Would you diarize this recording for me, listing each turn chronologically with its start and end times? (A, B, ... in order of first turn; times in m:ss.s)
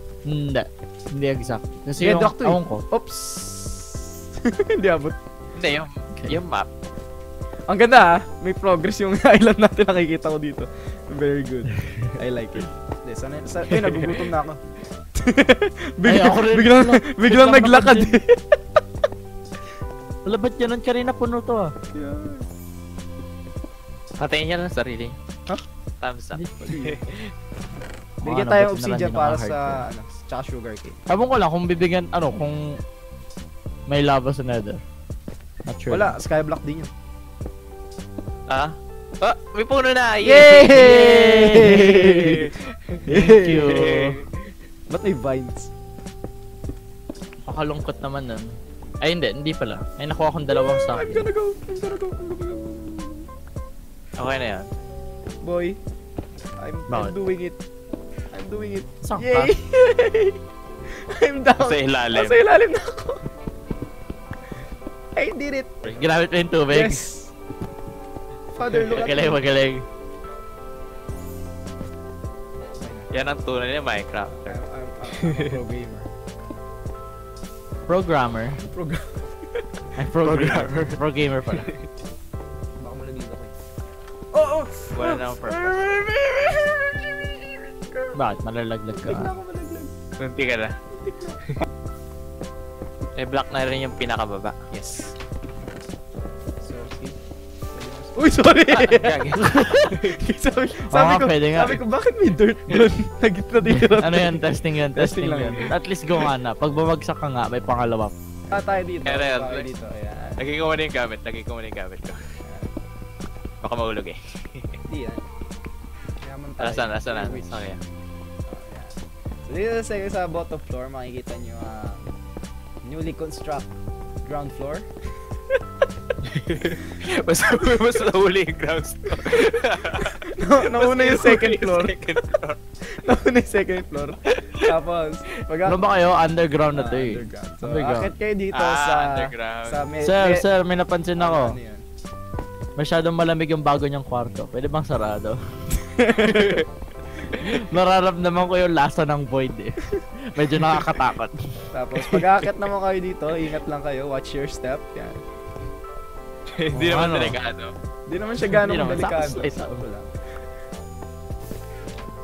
0:00.3-0:02.8 A
0:02.0-0:05.2 B
0:05.6-0:06.7 C
0:07.7-0:14.6 B
0:13.8-0:14.2 C
0:15.2-0:18.4 B
0:16.0-0:18.2 A
0:20.2-0:21.7 A
0:21.9-0:22.5 B
0:24.2-0:25.2 C
0:26.0-0:27.3 C
0:26.3-0:26.7 A
0:26.6-0:27.0 B
0:28.2-0:31.0 B
0:28.2-0:29.8 A
0:31.1-0:32.8 A
0:33.9-0:34.8 A
0:35.6-0:36.1 A
0:35.9-0:36.9 B
0:38.5-0:40.9 C
0:40.2-0:42.5 B
0:40.6-0:42.4 A
0:42.0-0:43.1 C
0:43.0-0:44.2 A
0:43.1-0:43.8 B
0:43.6-0:44.3 C
0:44.9-0:45.7 B
0:47.4-0:48.5 A
0:49.0-0:51.2 A
0:50.5-0:53.2 B
0:54.2-0:54.7 C
0:55.4-0:55.8 B
0:56.6-0:57.6 B
0:56.9-0:57.1 A
0:58.3-1:00.4 B
0:59.0-0:59.5 A
1:01.0-1:03.2 B
1:01.6-1:02.4 C
1:05.1-1:06.0 B
1:05.8-1:07.0 A
1:06.7-1:07.3 B
1:08.5-1:09.4 B
1:08.8-1:09.8 A
1:12.8-1:13.1 B
1:13.1-1:14.6 C
1:14.3-1:16.1 B
1:15.1-1:15.6 C
1:17.9-1:18.6 A
1:18.7-1:19.6 B
1:20.0-1:21.7 A
1:20.2-1:20.8 C
1:22.8-1:23.5 B
1:24.3-1:28.2 B
1:24.9-1:25.8 C
1:28.1-1:29.3 A
1:28.9-1:29.9 B
1:30.2-1:30.7 C
1:30.9-1:31.6 B
1:33.2-1:34.5 C
1:34.7-1:35.2 B
1:36.6-1:37.2 B
1:37.7-1:45.7 B
1:38.7-1:40.1 C
1:39.3-1:39.9 A
1:40.9-1:41.8 A
1:43.6-1:48.1 A
1:48.5-1:50.4 B
1:49.0-1:49.7 C
1:50.4-1:52.2 C
1:52.4-1:52.7 B
1:53.6-1:54.7 C
1:54.9-1:55.3 B
1:56.2-1:57.6 B
1:56.6-1:57.8 C
1:58.5-2:02.0 B
2:02.8-2:03.7 B
2:04.2-2:04.9 B
2:06.2-2:12.6 C
2:09.2-2:12.0 B
2:13.0-2:16.0 B
2:14.2-2:14.7 C
2:15.6-2:18.1 A
2:16.7-2:20.4 B
2:18.5-2:19.9 C
2:20.0-2:21.6 A
2:21.2-2:21.8 B
2:22.8-2:25.4 A
2:25.8-2:26.6 B
2:26.2-2:26.6 C
2:27.4-2:31.4 A
2:31.7-2:35.2 B
2:32.0-2:32.3 A
2:36.5-2:37.7 C
2:36.7-2:37.4 A
2:38.1-2:40.1 B
2:38.4-2:39.8 A